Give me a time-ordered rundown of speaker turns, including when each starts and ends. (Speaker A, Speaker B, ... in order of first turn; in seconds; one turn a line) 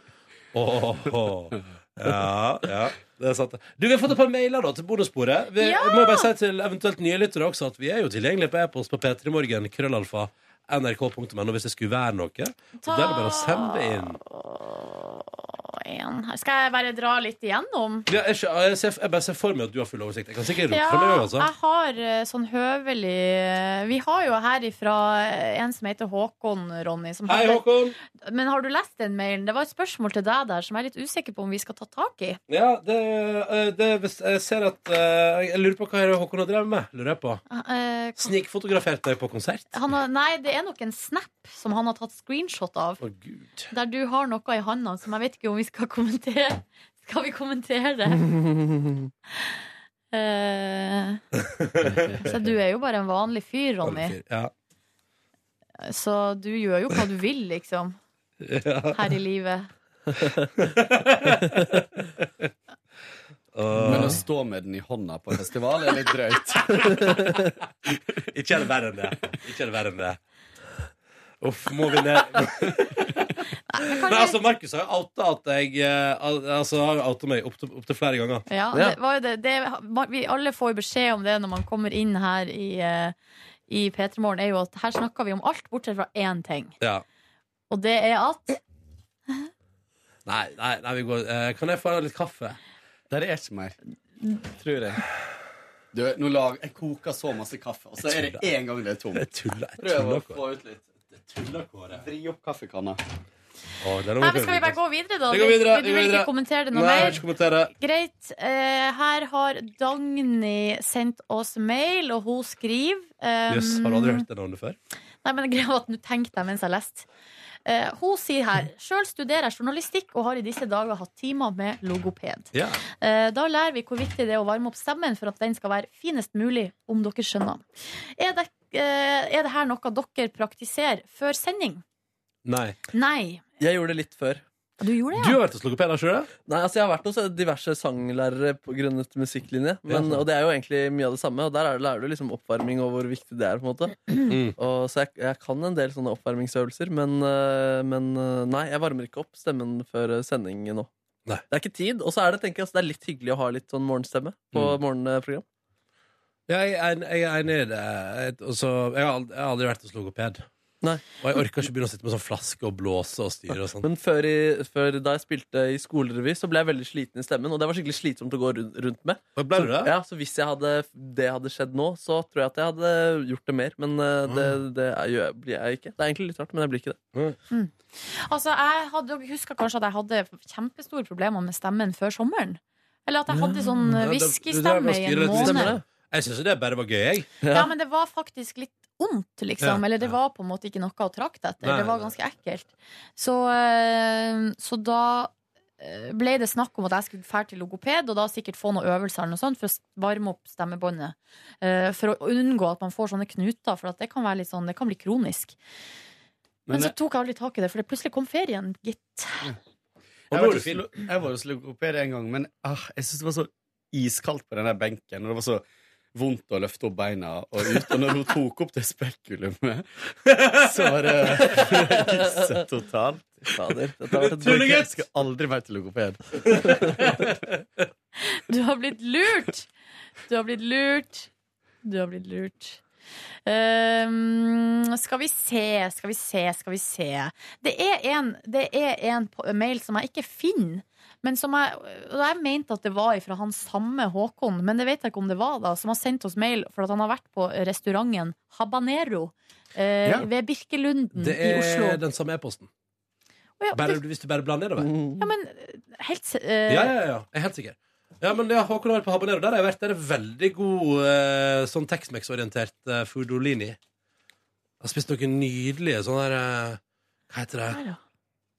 Speaker A: 0.5-14.2
Speaker B: 5.6-6.3
Speaker B: 12.8-18.1
Speaker A: 18.1-21.5
Speaker B: 20.7-32.4
Speaker A: 27.3-28.0
Speaker A: 32.5-37.4
Speaker B: 37.5-38.3
Speaker A: 38.2-39.7
Speaker B: 39.7-43.0
Speaker A: 43.0-43.7
Speaker B: 43.7-48.4
Speaker C: 48.3-49.1
Speaker B: 50.1-51.2
Speaker A: 51.4-52.2
Speaker D: 51.8-52.4
Speaker B: 52.2-54.2
Speaker A: 53.8-54.5
Speaker B: 55.8-58.0
Speaker A: 58.4-59.2
Speaker B: 58.9-59.7
Speaker A: 60.6-62.5
Speaker A: 63.5-64.2
Speaker C: 63.8-64.2
Speaker D: 63.9-67.0
Speaker A: 67.0-67.3
Speaker A: 68.3-70.2
Speaker A: 71.4-78.5
Speaker B: 73.7-74.4
Speaker B: 78.5-83.2
Speaker B: 83.7-86.8
Speaker B: 87.7-88.6
Speaker A: 90.3-92.6
Speaker D: 93.1-93.8
Speaker D: 94.4-95.0
Speaker D: 95.9-99.3
Speaker A: 98.0-98.5
Speaker A: 99.1-100.4
Speaker D: 99.8-101.0
Speaker A: 101.1-102.0
Speaker D: 101.9-103.0
Speaker A: 103.8-104.8
Speaker B: 104.2-114.3
Speaker A: 105.3-107.7
Speaker A: 113.5-114.8
Speaker B: 115.2-117.1
Speaker B: 117.7-131.8
Speaker A: 122.5-122.8
Speaker A: 132.4-132.8
Speaker B: 132.9-133.4
Speaker C: 133.6-134.4
Speaker B: 134.8-135.4
Speaker A: 135.2-136.3
Speaker C: 136.5-150.9
Speaker A: 139.9-140.2
Speaker A: 144.3-144.6
Speaker C: 151.5-155.4
Speaker A: 156.5-160.5
Speaker A: 161.2-163.9
Speaker C: 163.8-177.0
Speaker A: 169.4-169.9
Speaker A: 174.3-174.6
Speaker B: 177.5-185.7
Speaker C: 183.3-183.7
Speaker A: 183.9-187.3
Speaker C: 185.4-185.8
Speaker C: 187.4-187.7
Speaker B: 187.5-205.6
Speaker A: 189.6-190.1
Speaker A: 191.6-192.1
Speaker D: 206.7-206.9
Speaker B: 206.7-209.5
Speaker A: 210.3-210.8
Speaker D: 210.3-219.8
Speaker A: 220.3-221.8
Speaker D: 220.5-223.5
Speaker C: 221.6-222.2
Speaker C: 223.5-224.8
Speaker D: 224.1-226.5
Speaker A: 224.3-225.0
Speaker A: 226.4-227.6
Speaker B: 228.2-229.7
Speaker B: 230.3-231.3
Speaker B: 231.8-232.8
Speaker B: 233.5-252.0
Speaker A: 251.1-252.7
Speaker B: 253.6-254.0
Speaker A: 253.7-254.9
Speaker C: 254.8-255.2
Speaker B: 255.2-256.9
Speaker A: 256.7-263.8
Speaker A: 264.8-267.9
Speaker B: 267.7-268.0